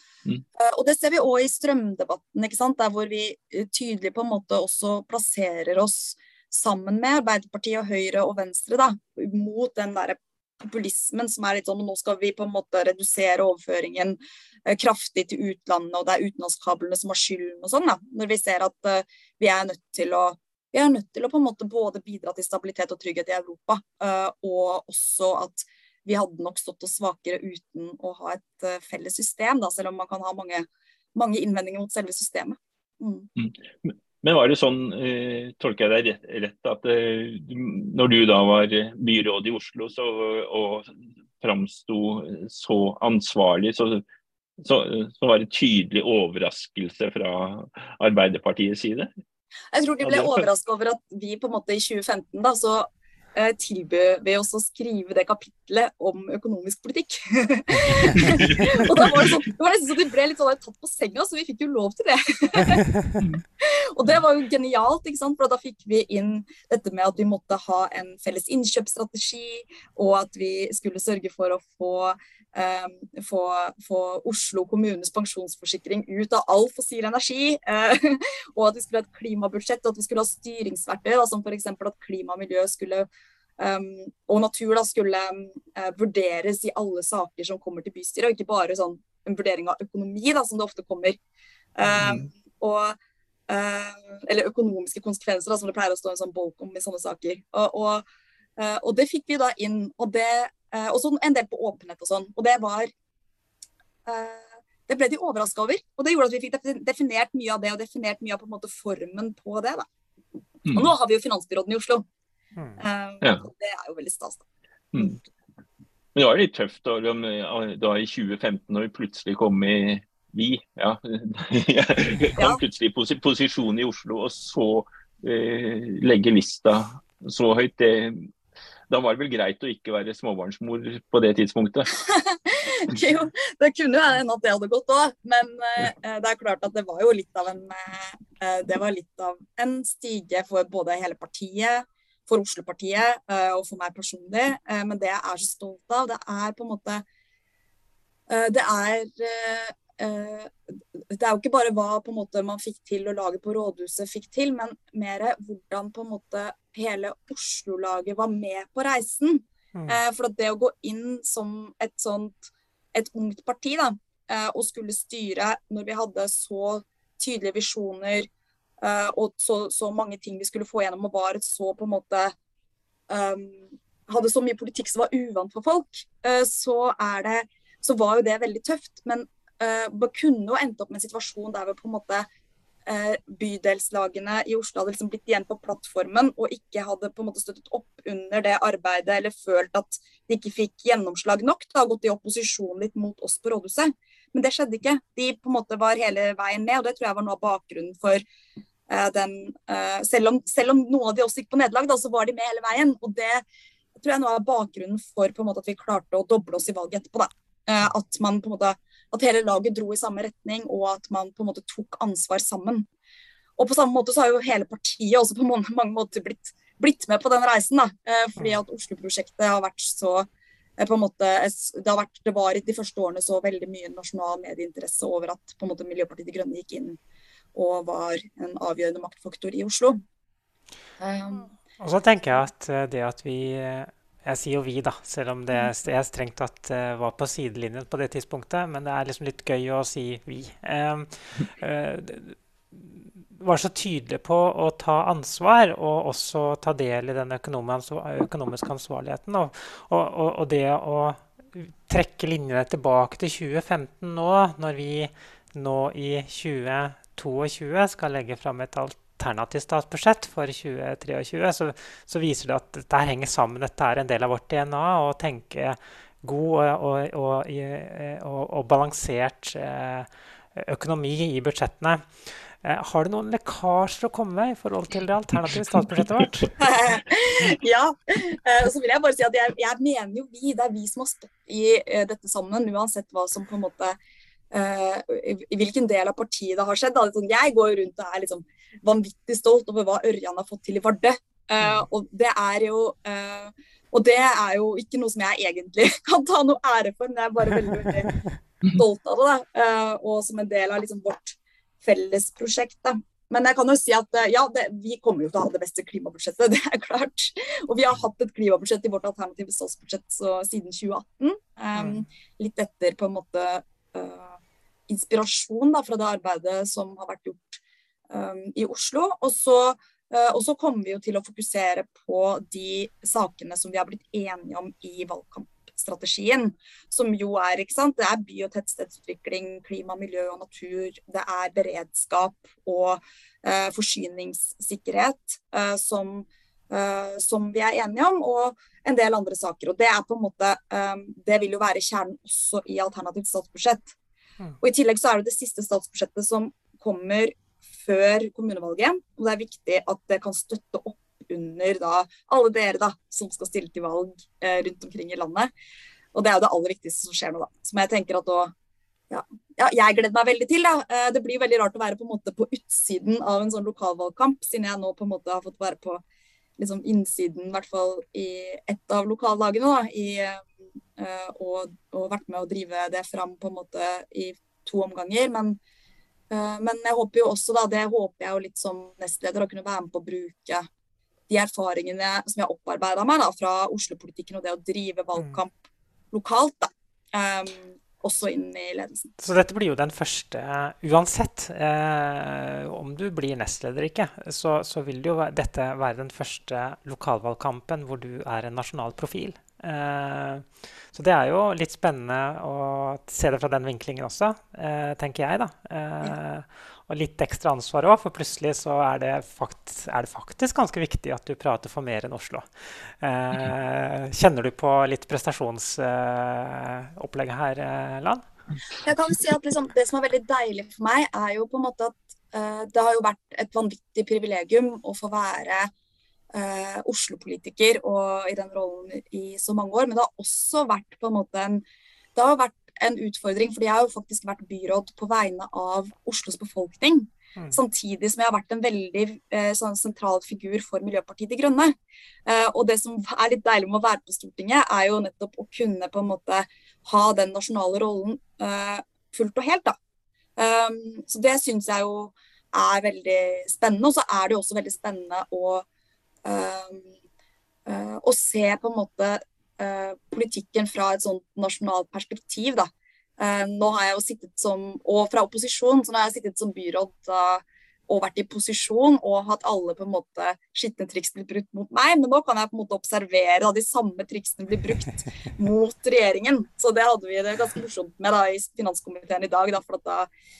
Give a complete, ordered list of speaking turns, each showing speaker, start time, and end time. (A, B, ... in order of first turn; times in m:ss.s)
0:00.5-0:33.3 A
0:33.4-0:40.9 B
0:41.4-0:44.0 B
0:44.6-0:49.1 B
0:49.7-1:02.9 A
0:50.0-0:50.4 B
0:58.1-0:59.3 B
1:03.6-1:23.1 A
1:23.6-1:31.2 A
1:31.8-1:33.0 A
1:31.8-1:32.3 B
1:33.5-1:38.0 A
1:38.6-1:42.9 A
1:44.0-1:49.9 A
1:50.7-1:52.0 A
1:52.8-1:54.4 A
1:54.9-1:55.2 B
1:56.1-2:08.3 B
2:02.4-2:02.6 A
2:08.9-2:11.9 B
2:11.9-2:27.0 A
2:28.3-2:48.3 A
2:39.7-2:40.0 C
2:48.8-2:52.3 A
2:53.1-3:02.3 A
3:02.8-3:18.2 A
3:18.9-3:23.4 A
3:24.0-3:32.8 A
3:33.6-3:40.3 A
3:40.8-3:47.0 A
3:47.5-3:50.0 A
3:51.0-3:51.5 A
3:51.8-4:32.1 C
4:32.6-4:36.5 C
4:36.6-4:44.0 A
4:44.5-5:14.4 A
5:11.8-5:12.0 C
5:14.9-5:43.9 A
5:44.6-5:55.5 A
5:56.1-5:58.5 A
5:59.1-6:06.0 A
6:06.6-6:15.6 A
6:16.3-6:20.6 A
6:21.3-6:25.5 A
6:26.1-6:29.1 A
6:29.2-6:58.3 C
6:58.8-7:05.7 A
7:06.3-7:11.6 A
7:12.1-7:21.7 A
7:22.2-7:29.8 A
7:30.4-7:35.6 A
7:36.2-7:36.9 A
7:37.6-8:00.1 A